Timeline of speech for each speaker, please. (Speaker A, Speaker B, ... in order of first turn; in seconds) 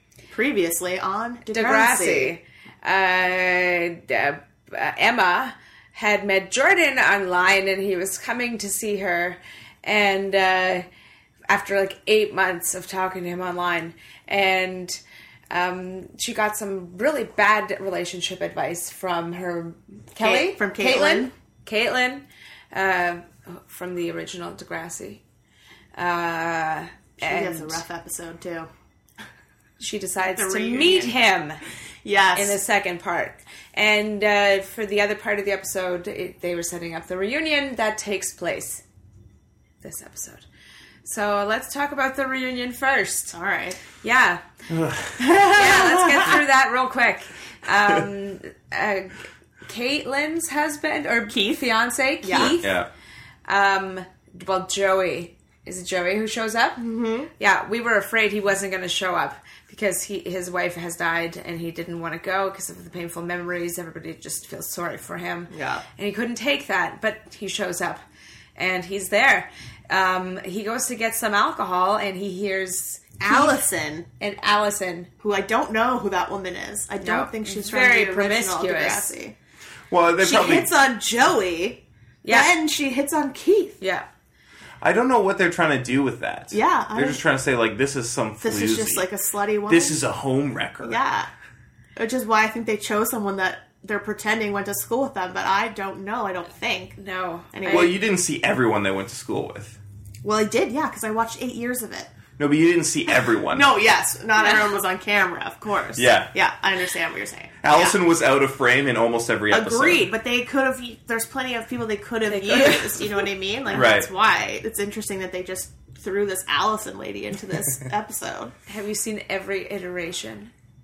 Speaker A: 0.3-2.3, 20.2-21.3, 27.2-28.7, 30.4-31.1, 32.0-32.6, 43.3-43.8, 45.2-46.4, 51.3-51.6, 52.2-52.5, 56.8-57.3, 65.5-65.8, 73.2-74.0, 75.2-79.3, 80.2-83.8, 86.5-87.2, 88.4-90.0, 90.8-91.3, 92.0-97.0, 97.5-98.0, 100.2-102.1, 103.5-108.0, 109.5-118.5
Speaker B: 1.5-10.8, 11.5-15.0, 15.5-25.2, 25.9-27.8, 29.8-31.6, 32.3-38.8, 39.8-40.4, 41.0-43.3, 44.0-44.4, 45.4-52.8, 53.5-56.8, 57.4-68.0, 68.5-73.7, 74.2-75.1, 77.0-79.1, 82.2-82.5, 83.8-84.0, 97.0-97.9, 104.4-104.6, 112.3-113.2, 118.7-120.5
Speaker C: 44.7-45.3, 52.3-52.9, 79.9-80.8, 84.8-89.1, 89.7-91.0, 97.7-99.8, 102.4-103.8, 105.9-106.3, 107.6-110.1, 113.7-114.1